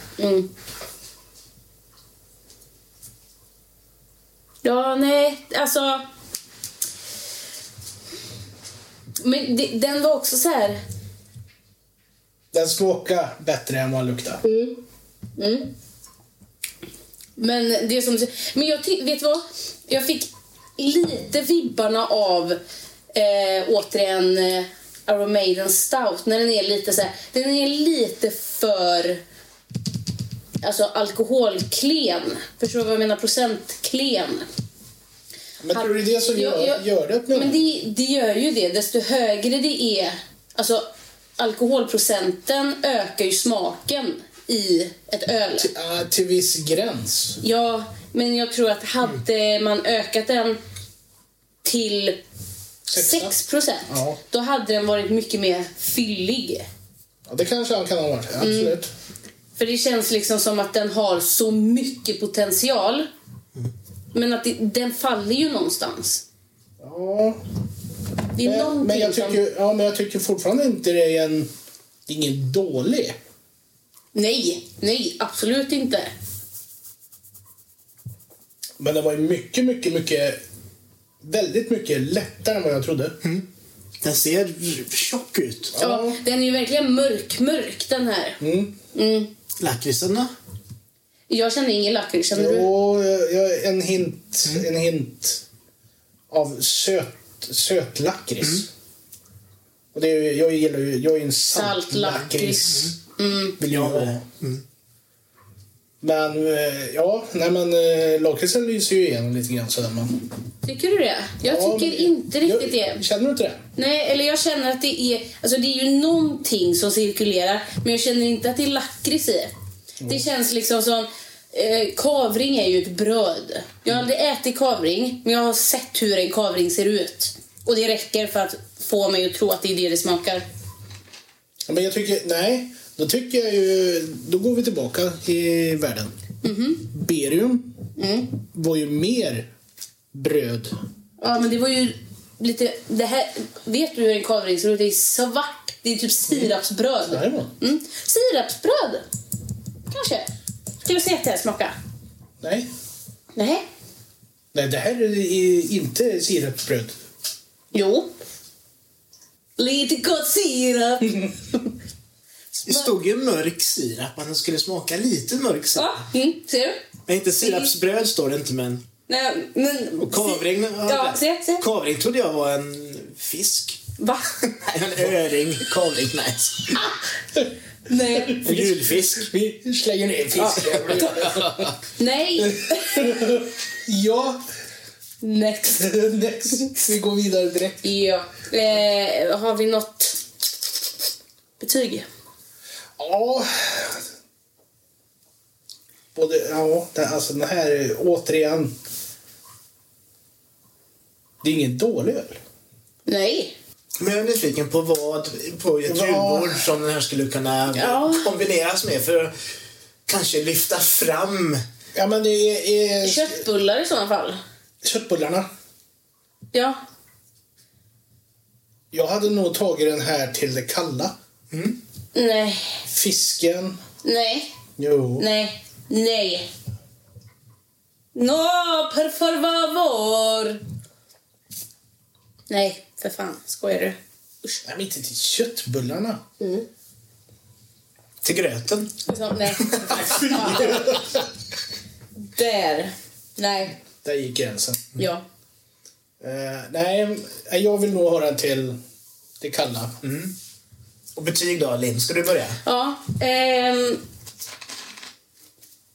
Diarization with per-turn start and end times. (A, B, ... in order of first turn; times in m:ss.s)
0:00.2-0:00.5 A
0:04.6-0:06.0 A
0:09.2-0:10.8 A
0:12.5-0:14.4 B
0:14.4-0:14.8 A
0:15.4-0:15.7 A
0:17.4-0:22.6 A
0:23.1-0:29.2 A
0:30.6-0:34.5 A
0:35.6-0:37.6 B
0:35.7-0:45.7 A
0:45.6-0:47.4 B
0:47.4-0:50.6 A
0:51.6-0:52.2 A
0:52.9-0:53.4 B
0:52.9-0:56.7 A
0:53.9-0:54.2 B
0:57.3-0:58.9 B
0:58.4-0:58.8 A
0:59.6-1:03.1 A
1:04.1-1:06.2 A
1:06.8-1:07.4 B
1:08.4-1:09.4 A
1:08.4-1:11.5 B
1:12.1-1:13.2 B
1:14.1-1:16.1 A
1:18.8-1:20.4 B
1:21.2-1:23.2 B
1:23.2-1:23.5 C
1:24.0-1:25.8 C
1:25.8-1:26.2 B
1:25.8-1:28.4 A
1:28.4-1:28.8 B
1:28.9-1:29.3 A
1:29.6-1:30.3 C
1:31.3-1:32.7 A
1:32.4-1:35.4 B
1:36.3-1:38.7 B
1:39.9-1:43.0 B
1:41.5-1:43.6 A
1:43.6-1:44.2 B
1:43.6-1:44.6 C
1:46.0-1:50.2 B
1:50.6-1:53.0 A
1:51.4-1:53.6 B
1:53.8-1:59.5 A
2:00.1-2:10.4 A
2:11.7-2:16.1 B
2:16.4-2:16.9 A
2:16.9-2:17.8 B
2:18.0-2:18.4 A
2:18.5-2:19.5 B
2:20.1-2:20.7 B
2:21.2-2:29.0 A
2:27.1-2:27.5 B
2:29.9-2:30.3 A
2:30.8-2:31.8 A
2:32.4-2:32.7 B
2:33.4-2:33.6 A
2:34.5-2:37.0 B
2:37.7-2:38.1 A
2:39.6-2:41.7 A
2:42.6-2:42.9 A
2:42.6-2:46.0 C
2:45.8-2:46.8 A
2:47.1-2:48.8 C
2:47.4-2:47.7 A
2:49.1-2:51.6 A
2:50.0-2:53.8 C
2:54.0-2:54.3 A
2:54.4-2:56.8 C
2:57.9-2:58.4 A
2:58.3-3:01.7 B
2:58.4-2:59.3 C
3:00.4-3:01.3 A
3:02.0-3:03.4 A
3:02.4-3:04.4 B
3:05.2-3:05.9 A
3:05.8-3:07.8 B
3:07.8-3:10.2 A
3:11.6-3:12.0 A
3:13.0-3:14.0 B
3:16.1-3:18.8 B
3:21.4-3:22.4 B
3:23.1-3:23.6 A
3:24.0-3:29.3 C
3:25.9-3:26.6 B
3:27.7-3:28.3 A
3:30.1-3:31.6 C
3:32.0-3:33.4 B
3:33.0-3:34.4 A
3:34.8-3:35.5 B
3:36.5-3:36.8 A
3:38.9-3:41.1 B
3:41.5-3:41.8 C
3:42.1-3:42.8 A
3:42.9-3:43.8 B
3:44.0-3:44.5 A
3:44.8-3:45.3 B
3:45.2-3:46.5 A
3:48.1-3:50.6 A
3:52.5-3:54.6 A
3:54.6-3:56.2 B
3:56.4-3:56.6 A
3:58.2-3:59.0 C
3:59.1-4:01.0 A
4:02.4-4:03.8 A
4:04.0-4:04.9 B
4:05.0-4:05.2 A
4:06.2-4:08.8 B
4:09.4-4:10.0 B
4:10.0-4:10.4 C
4:11.1-4:12.6 C
4:12.6-4:14.0 A